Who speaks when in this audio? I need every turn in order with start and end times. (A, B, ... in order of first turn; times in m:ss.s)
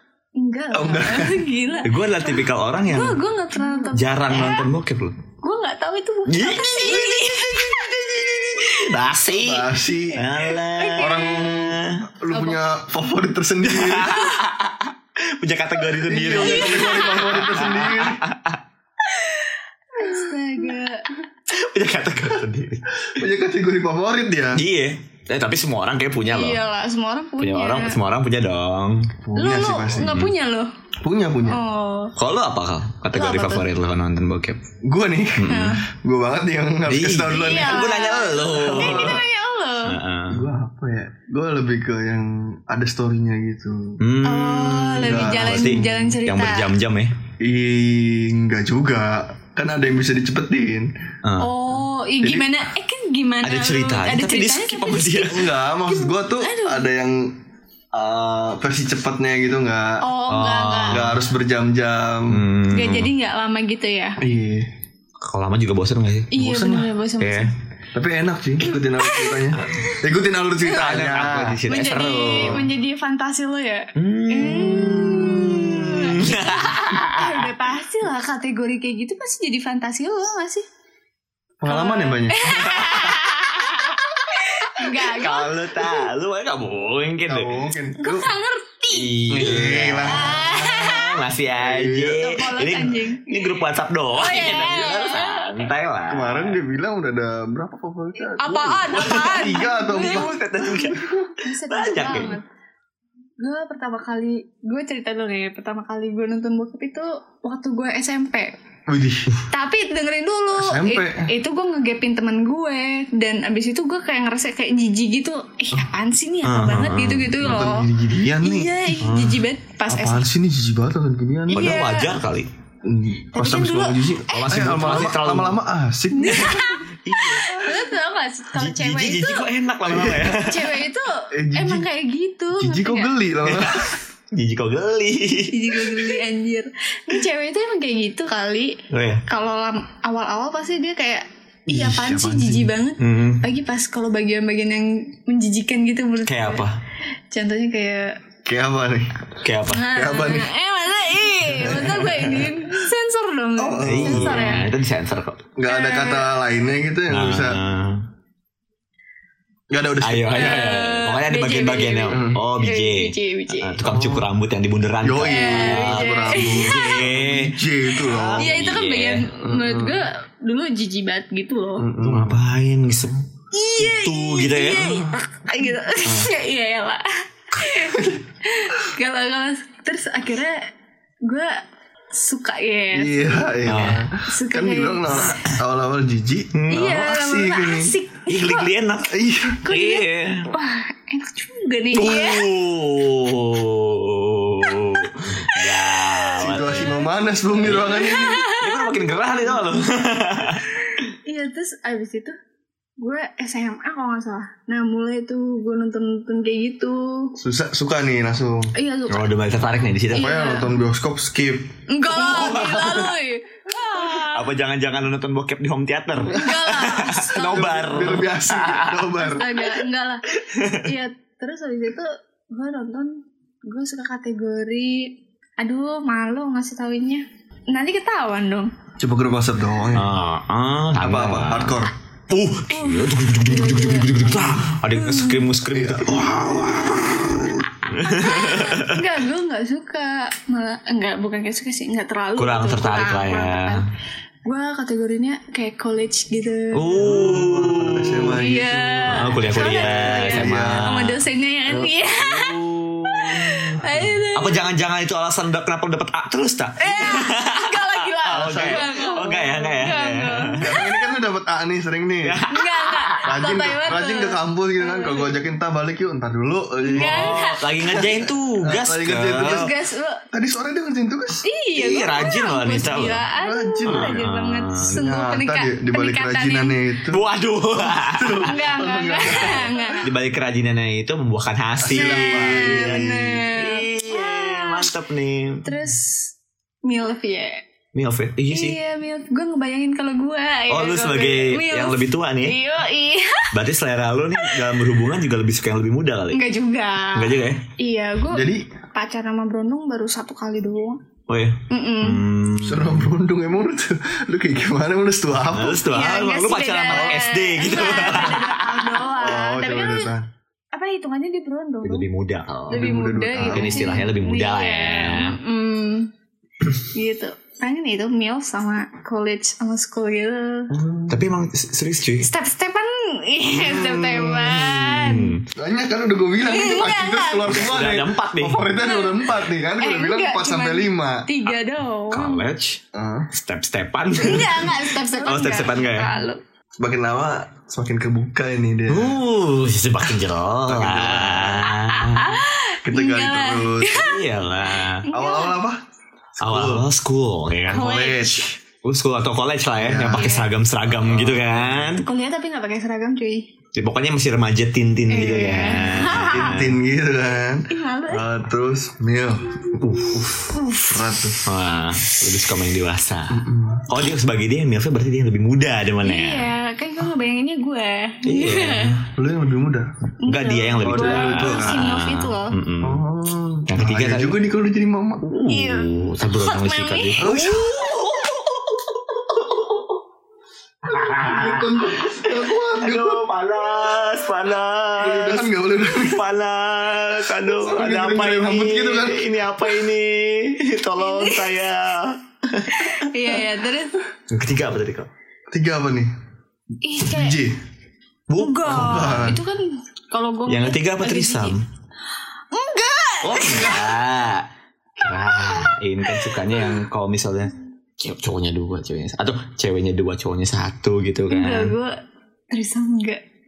0:00.4-0:04.7 A
0:00.7-0:01.4 B
0:01.8-0:03.2 C
0:03.9-0:05.2 C
0:05.4-0:08.9 A
0:06.3-0:12.0 C
0:09.3-0:10.2 B
0:10.4-0:11.6 A
0:11.0-0:14.3 B
0:12.3-0:12.6 A
0:13.7-0:18.6 C
0:16.0-0:18.2 B
0:16.3-0:17.7 A
0:19.1-0:21.1 A
0:21.5-0:22.8 C
0:23.1-0:24.6 B
0:24.5-0:26.6 C
0:26.3-0:28.0 A
0:27.4-0:29.1 C
0:29.2-0:30.2 B
0:29.4-0:30.7 A
0:30.0-0:30.3 C
0:31.0-0:31.6 B
0:31.5-0:32.1 A
0:32.2-0:34.6 C
0:33.1-0:33.7 A
0:34.8-0:37.9 B
0:35.4-0:35.8 C
0:35.5-0:35.9 A
0:36.9-0:39.2 C
0:37.3-0:40.0 A
0:38.5-0:39.2 B
0:39.9-0:40.5 C
0:40.3-0:44.0 B
0:44.0-0:47.1 C
0:44.2-0:46.7 A
0:44.9-0:46.1 B
0:47.4-0:50.9 B
0:51.2-0:51.6 C
0:51.4-0:56.9 A
0:52.2-0:52.5 B
0:53.4-0:55.5 C
0:55.2-0:57.4 B
0:57.9-1:00.0 B
1:00.0-1:01.1 A
1:00.3-1:01.2 C
1:00.9-1:02.4 B
1:02.3-1:03.1 C
1:02.7-1:04.2 A
1:04.2-1:04.7 B
1:05.2-1:06.3 C
1:06.3-1:07.5 A
1:06.4-1:06.9 B
1:07.2-1:07.5 C
1:07.9-1:11.6 B
1:09.0-1:10.0 A
1:10.6-1:12.6 C
1:11.7-1:20.6 A
1:14.0-1:17.5 C
1:21.6-1:22.7 B
1:21.7-1:26.1 A
1:22.5-1:24.0 C
1:24.6-1:27.6 C
1:27.3-1:28.3 B
1:28.0-1:29.3 A
1:28.9-1:36.6 C
1:29.3-1:30.6 B
1:30.0-1:31.2 A
1:31.6-1:32.2 B
1:32.1-1:33.6 A
1:34.1-1:35.7 A
1:36.1-1:41.1 B
1:38.4-1:40.4 A
1:38.8-1:42.4 C
1:41.4-1:42.4 A
1:43.4-1:48.5 A
1:48.9-1:49.3 B
1:49.5-2:00.3 A
1:50.5-1:51.3 B
1:56.4-1:57.5 C
1:57.4-1:58.9 B
1:59.0-1:59.4 C
1:59.9-2:01.8 B
2:01.5-2:02.1 A
2:01.5-2:02.5 C
2:02.8-2:06.8 B
2:03.3-2:04.8 A
2:04.3-2:05.6 C
2:06.1-2:09.5 A
2:06.3-2:07.8 C
2:08.5-2:10.8 C
2:09.8-2:10.4 B
2:10.2-2:13.1 A
2:11.3-2:11.9 B
2:12.5-2:14.0 B
2:13.4-2:16.2 C
2:15.5-2:26.6 A
2:18.9-2:19.2 C
2:21.7-2:22.7 B
2:23.0-2:23.4 C
2:26.2-2:26.8 C
2:27.3-2:28.2 A
2:28.4-2:29.1 B
2:29.4-2:29.9 C
2:29.7-2:34.7 A
2:29.9-2:30.5 B
2:31.6-2:32.3 B
2:33.6-2:34.6 B
2:33.8-2:35.4 C
2:35.6-2:37.6 B
2:35.6-2:36.4 A
2:37.1-2:38.0 C
2:39.7-2:40.6 B
2:40.0-2:49.3 C
2:40.3-2:43.8 A
2:42.1-2:42.4 B
2:43.8-2:44.3 B
2:45.0-2:48.7 B
2:45.2-2:47.1 A
2:48.4-2:51.9 A
2:49.4-2:50.0 B
2:51.8-2:52.4 B
2:52.0-2:53.2 C
2:53.5-3:00.7 A
2:53.8-2:55.0 C
2:57.9-2:58.2 B
3:01.2-3:01.6 A
3:02.1-3:05.4 A
3:02.9-3:08.0 B
3:03.6-3:04.1 C
3:06.5-3:07.0 C
3:06.7-3:08.7 A
3:08.2-3:10.5 C
3:09.1-3:09.6 B
3:09.6-3:12.5 A
3:11.9-3:17.0 C
3:14.6-3:16.9 A
3:16.4-3:18.4 B
3:17.5-3:19.1 A
3:17.6-3:21.0 C
3:21.0-3:22.4 A
3:23.0-3:27.3 A
3:27.4-3:28.7 B
3:28.7-3:30.7 A
3:29.1-3:30.3 C
3:30.1-3:31.7 B
3:31.9-3:34.5 A
3:32.1-3:33.1 C
3:34.0-3:39.1 C
3:36.3-3:38.1 A
3:37.4-3:39.6 B
3:39.1-3:48.7 A
3:40.3-3:40.9 C
3:49.0-3:50.1 B
3:49.9-3:59.0 C
3:51.0-3:51.9 B
3:52.7-3:55.5 A
3:55.7-3:57.6 B
3:58.0-4:03.8 A
4:02.4-4:03.8 C
4:04.4-4:07.5 A
4:06.7-4:08.4 C
4:07.0-4:10.9 B
4:08.3-4:14.6 A
4:09.1-4:11.2 C
4:11.7-4:20.8 C
4:16.8-4:21.1 A
4:18.3-4:18.9 B
4:20.6-4:22.4 B
4:22.2-4:23.2 C
4:22.5-4:25.4 A
4:23.2-4:29.7 B
4:26.8-4:27.6 A
4:27.0-4:29.7 C
4:29.4-4:30.2 A
4:30.3-4:31.4 B
4:31.4-4:36.8 A
4:31.7-4:33.2 C
4:33.4-4:34.2 B
4:33.9-4:35.0 C
4:34.9-4:37.2 B
4:37.1-4:38.5 C
4:37.7-4:40.0 B
4:38.4-4:40.1 A
4:39.4-4:45.7 C
4:41.8-4:43.4 B
4:41.9-4:44.9 A
4:45.6-4:47.6 A
4:47.9-4:48.8 C
4:48.5-4:53.5 A
4:50.7-4:52.6 C
4:53.5-4:56.5 C
4:54.4-4:54.8 A
4:56.3-5:01.0 A
4:57.1-4:57.6 C
4:58.3-4:58.7 B
5:01.3-5:03.1 C
5:01.7-5:02.2 A
5:02.6-5:05.8 B
5:05.5-5:09.0 C
5:05.9-5:10.1 A
5:06.9-5:07.2 B
5:09.2-5:10.3 B
5:10.7-5:12.1 A
5:11.8-5:12.9 C
5:12.7-5:14.0 B
5:12.7-5:16.1 A
5:13.4-5:15.4 C
5:16.7-5:20.7 A
5:20.7-5:21.2 B
5:21.0-5:22.3 C
5:22.2-5:25.3 A
5:23.9-5:25.4 C
5:25.5-5:31.3 B
5:26.4-5:27.6 A
5:27.5-5:28.7 C
5:28.7-5:32.4 A
5:32.1-5:32.8 C
5:32.9-5:33.3 B
5:33.3-5:36.1 C
5:34.2-5:36.4 A
5:36.8-5:39.2 B
5:38.9-5:42.4 C
5:40.6-5:41.7 B
5:41.7-5:45.6 A
5:42.8-5:44.1 B
5:44.0-5:45.0 C
5:45.1-5:45.8 B
5:46.4-5:46.9 B
5:46.4-5:47.9 C
5:47.7-5:48.5 B
5:47.7-5:48.5 A
5:48.8-5:52.0 C
5:49.8-5:50.3 B
5:50.1-5:50.5 A
5:50.9-5:52.0 B
5:52.0-5:53.5 A
5:53.7-5:56.8 C
5:55.1-5:56.5 A
5:55.9-6:00.2 B
5:57.7-5:58.2 A
5:59.8-6:00.6 C
6:00.5-6:01.0 A
6:00.9-6:01.4 B
6:01.4-6:06.5 C
6:03.3-6:03.9 B
6:06.0-6:09.0 A
6:08.2-6:09.1 C
6:09.2-6:09.9 B
6:10.2-6:12.6 A
6:10.3-6:13.0 C
6:10.8-6:11.8 B
6:12.8-6:15.2 B
6:13.7-6:14.4 C
6:15.2-6:20.0 C
6:15.5-6:17.8 A
6:17.2-6:17.8 B
6:20.9-6:23.2 B
6:20.9-6:33.1 C
6:25.0-6:26.2 B
6:27.4-6:29.3 B
6:31.0-6:31.5 A
6:32.7-6:34.0 A
6:34.3-6:35.1 C
6:35.5-6:36.1 B
6:36.8-6:37.4 A
6:37.0-6:37.6 B
6:38.3-6:39.3 C
6:38.4-6:41.6 A
6:38.6-6:39.4 B
6:40.5-6:41.6 C
6:42.5-6:43.9 A
6:43.2-6:44.5 C
6:43.4-6:43.9 B
6:45.0-6:51.7 C
6:45.0-6:46.8 A
6:51.3-6:52.0 A
6:52.5-6:53.2 A